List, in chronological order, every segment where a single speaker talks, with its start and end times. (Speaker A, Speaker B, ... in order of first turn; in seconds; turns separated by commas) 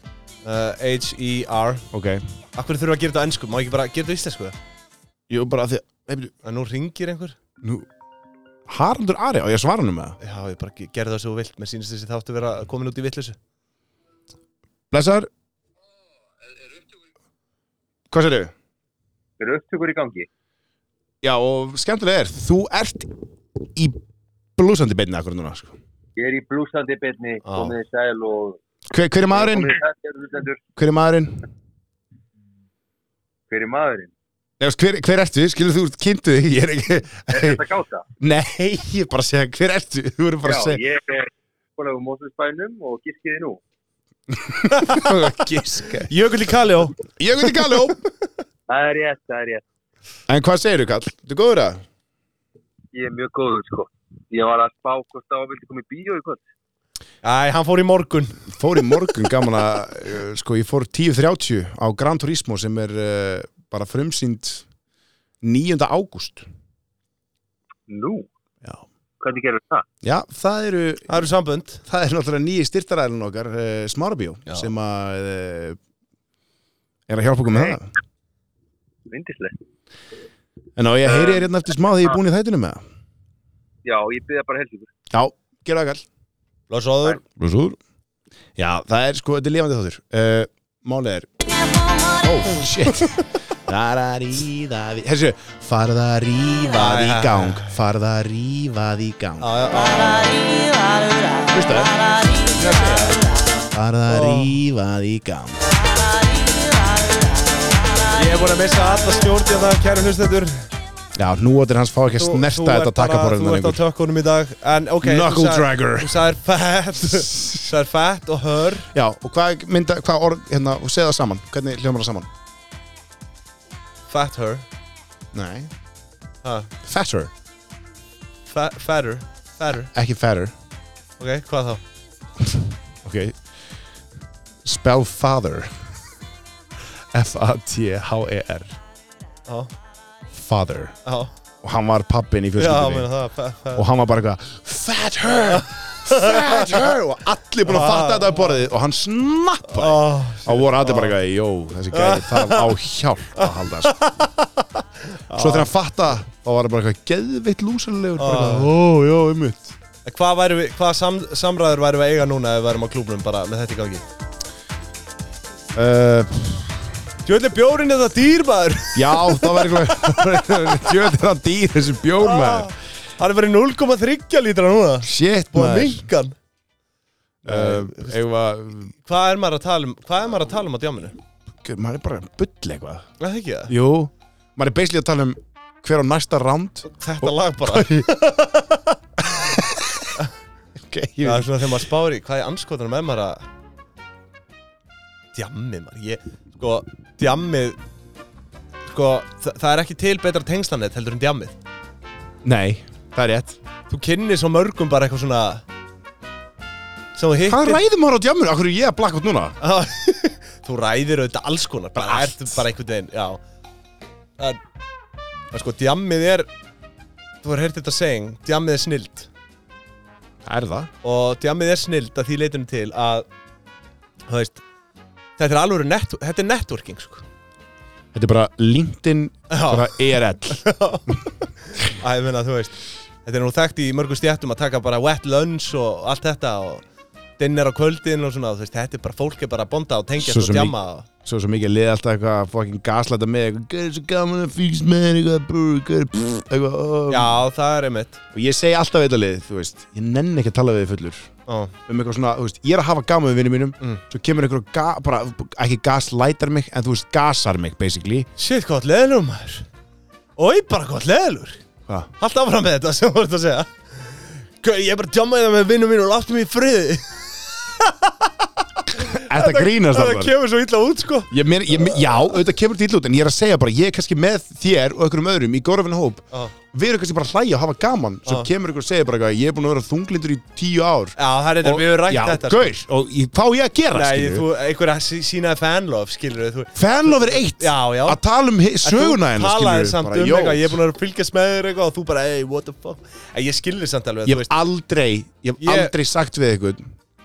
Speaker A: 0.4-1.9, Speaker B: 1.9-2.2, Speaker A: 2.5-4.5, Speaker B: 5.3-6.3, Speaker A: 6.4-7.3, Speaker B: 7.6-7.9, Speaker B: 8.7-10.2, Speaker A: 10.2-13.4, Speaker B: 14.9-15.3, Speaker B: 18.1-18.5, Speaker C: 19.4-20.3, Speaker B: 21.2-23.2, Speaker B: 23.7-24.0, Speaker B: 24.6-25.8, Speaker C: 26.2-28.6, Speaker A: 27.4-27.7, Speaker B: 28.9-29.8, Speaker C: 29.3-30.6, Speaker B: 30.8-31.4, Speaker C: 33.5-34.1, Speaker B: 34.6-37.6, Speaker C: 37.3-38.0, Speaker B: 38.2-40.8, Speaker C: 40.4-43.6, Speaker B: 44.3-46.1, Speaker A: 44.7-45.1, Speaker A: 46.1-47.0, Speaker B: 47.2-48.0, Speaker A: 47.5-47.9, Speaker C: 48.7-49.6, Speaker B: 50.3-51.8, Speaker C: 52.9-56.4, Speaker A: 57.2-58.4, Speaker B: 58.5-64.7, Speaker B: 65.4-66.5, Speaker C: 67.9-68.3, Speaker C: 69.2-69.8, Speaker B: 70.0-71.2, Speaker A: 71.1-71.8, Speaker B: 71.8-75.8, Speaker B: 77.1-77.9, Speaker C: 79.1-79.6, Speaker B: 80.8-82.8, Speaker C: 81.1-81.4, Speaker C: 83.8-84.9, Speaker B: 85.1-86.0, Speaker A: 86.7-87.2, Speaker B: 87.3-87.8, Speaker B: 88.5-91.3, Speaker B: 92.1-99.5, Speaker A: 96.7-97.7, Speaker A: 99.4-100.4, Speaker B: 101.5-102.0, Speaker A: 102.5-103.2, Speaker B: 103.7-105.6, Speaker A: 104.1-104.5, Speaker A: 108.1-110.7, Speaker B: 111.2-113.8, Speaker A: 112.2-118.9, Speaker B: 115.0-116.2, Speaker B: 117.1-117.6, Speaker B: 118.9-122.3, Speaker A: 124.1-124.6, Speaker B: 125.3-125.7, Speaker A: 126.4-126.7, Speaker B: 126.8-127.3, Speaker A: 128.5-129.9, Speaker B: 129.9-130.5, Speaker A: 131.2-131.8, Speaker B: 132.4-133.4, Speaker B: 134.6-135.7, Speaker B: 137.1-138.8, Speaker B: 140.3-141.0, Speaker A: 141.0-141.3, Speaker B: 141.6-143.1, Speaker A: 142.6-143.8, Speaker B: 143.7-154.0, Speaker A: 145.5-146.9, Speaker A: 147.6-148.6, Speaker A: 149.7-151.2, Speaker A: 151.9-152.7, Speaker A: 153.4-155.7, Speaker B: 155.3-159.7, Speaker A: 158.2-158.7, Speaker A: 160.1-164.0, Speaker B: 165.7-166.9, Speaker A: 167.2-170.8, Speaker B: 168.9-172.7, Speaker A: 172.2-176.3, Speaker B: 175.0-176.1, Speaker A: 177.4-178.2, Speaker B: 177.4-178.9, Speaker A: 179.0-181.2, Speaker B: 181.6-183.1, Speaker A: 183.2-183.7, Speaker B: 183.7-188.1, Speaker A: 186.9-189.0, Speaker B: 189.3-190.1, Speaker B: 190.8-191.7, Speaker A: 191.2-193.4, Speaker A: 195.3-197.8, Speaker A: 198.9-201.5, Speaker B: 202.4-203.6, Speaker A: 203.9-205.6, Speaker A: 207.1-207.8, Speaker B: 207.4-209.6, Speaker A: 209.6-213.4, Speaker B: 211.9-212.6, Speaker A: 215.5-216.5, Speaker A: 217.4-219.3, Speaker B: 220.4-220.9, Speaker A: 221.0-223.3, Speaker A: 224.3-224.6, Speaker A: 225.4-227.2, Speaker B: 228.1-230.7, Speaker A: 229.5-236.8, Speaker A: 237.4-241.1, Speaker B: 240.2-247.4, Speaker A: 247.1-248.2, Speaker B: 248.3-251.3, Speaker A: 251.5-251.7, Speaker B: 251.9-258.3, Speaker A: 258.4-259.6, Speaker A: 260.4-261.6, Speaker A: 262.2-272.4, Speaker B: 269.0-270.3, Speaker B: 271.3-284.4, Speaker A: 281.2-282.7, Speaker A: 283.9-288.2, Speaker B: 286.7-290.8, Speaker A: 288.8-294.5, Speaker B: 294.2-296.9, Speaker A: 295.6-295.9